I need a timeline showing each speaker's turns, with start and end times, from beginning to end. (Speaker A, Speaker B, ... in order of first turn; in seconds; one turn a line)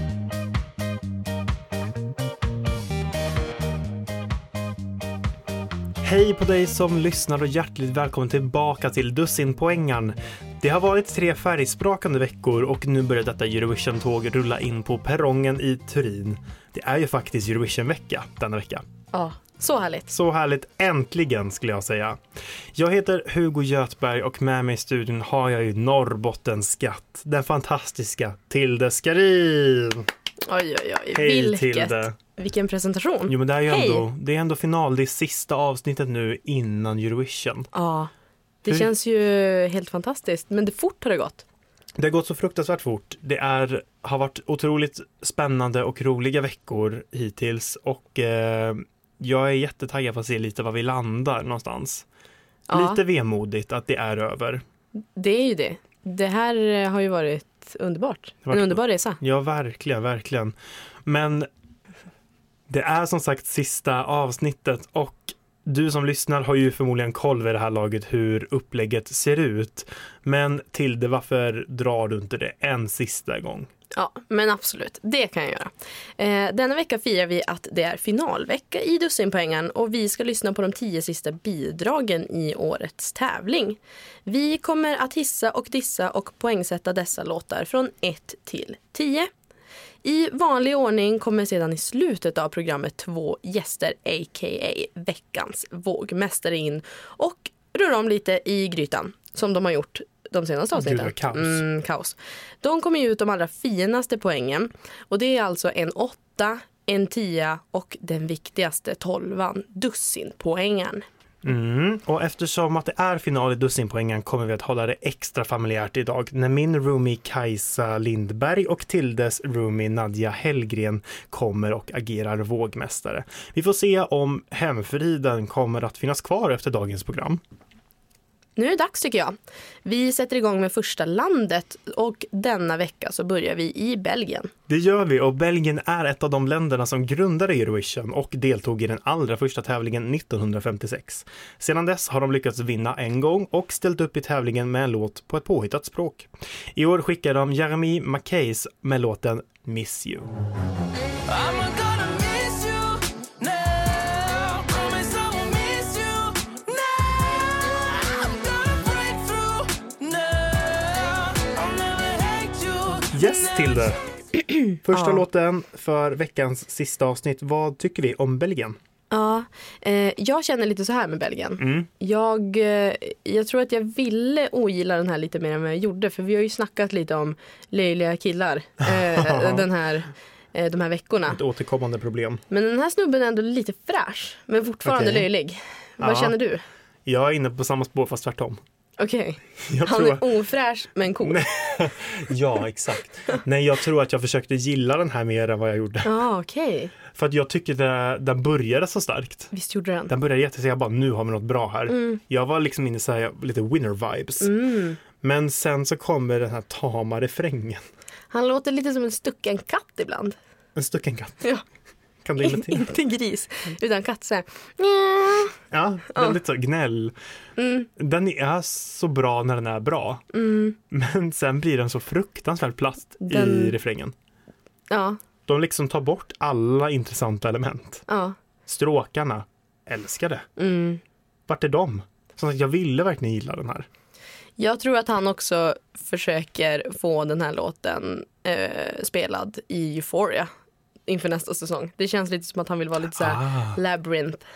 Speaker A: 6.0-18.9
Speaker B: 19.1-20.1
Speaker A: 20.1-22.2
Speaker A: 22.7-30.1
Speaker B: 30.4-34.0
Speaker A: 31.1-32.2
Speaker A: 33.3-37.7
Speaker B: 37.7-38.1
Speaker B: 38.6-41.4
Speaker A: 42.0-52.0
Speaker B: 52.7-53.0
Speaker A: 52.7-54.6
Speaker B: 55.2-59.2
Speaker A: 58.5-60.5
Speaker A: 61.1-61.5
Speaker A: 62.7-73.7
Speaker B: 73.9-89.3
Speaker B: 90.0-111.0
Speaker A: 100.7-101.7
Speaker A: 111.4-127.4
Speaker B: 128.6-134.5
Speaker A: 134.7-150.3
Speaker C: 151.3-163.1
Speaker A: 163.1-164.0
Speaker B: 164.7-165.2
Speaker A: 164.8-168.8
Speaker B: 169.1-181.4
Speaker A: 171.6-171.9
Speaker A: 178.8-179.7
Speaker A: 181.3-182.4
Speaker B: 182.5-186.6
Speaker A: 184.8-185.3
Speaker A: 186.0-186.3
Speaker A: 187.1-188.6
Speaker B: 189.0-191.4
Speaker A: 189.7-190.2
Speaker A: 191.2-196.1
Speaker B: 196.0-196.9
Speaker A: 197.1-199.5
Speaker B: 199.5-200.1
Speaker A: 200.1-204.5
Speaker B: 201.9-202.2
Speaker B: 204.4-205.0
Speaker A: 205.2-207.8
Speaker B: 208.3-210.4
Speaker A: 210.8-211.4
Speaker A: 212.2-212.9
Speaker B: 212.4-215.6
Speaker A: 215.7-217.1
Speaker B: 216.1-216.4
Speaker B: 217.6-217.9
Speaker A: 218.0-220.2
Speaker B: 220.3-220.8
Speaker A: 220.9-224.1
Speaker B: 223.2-223.8
Speaker B: 224.9-225.2
Speaker A: 225.5-228.1
Speaker B: 228.1-228.4
Speaker A: 228.7-230.4
Speaker B: 230.6-231.0
Speaker A: 231.5-233.9
Speaker B: 234.6-240.5
Speaker B: 241.1-244.4
Speaker A: 243.1-243.8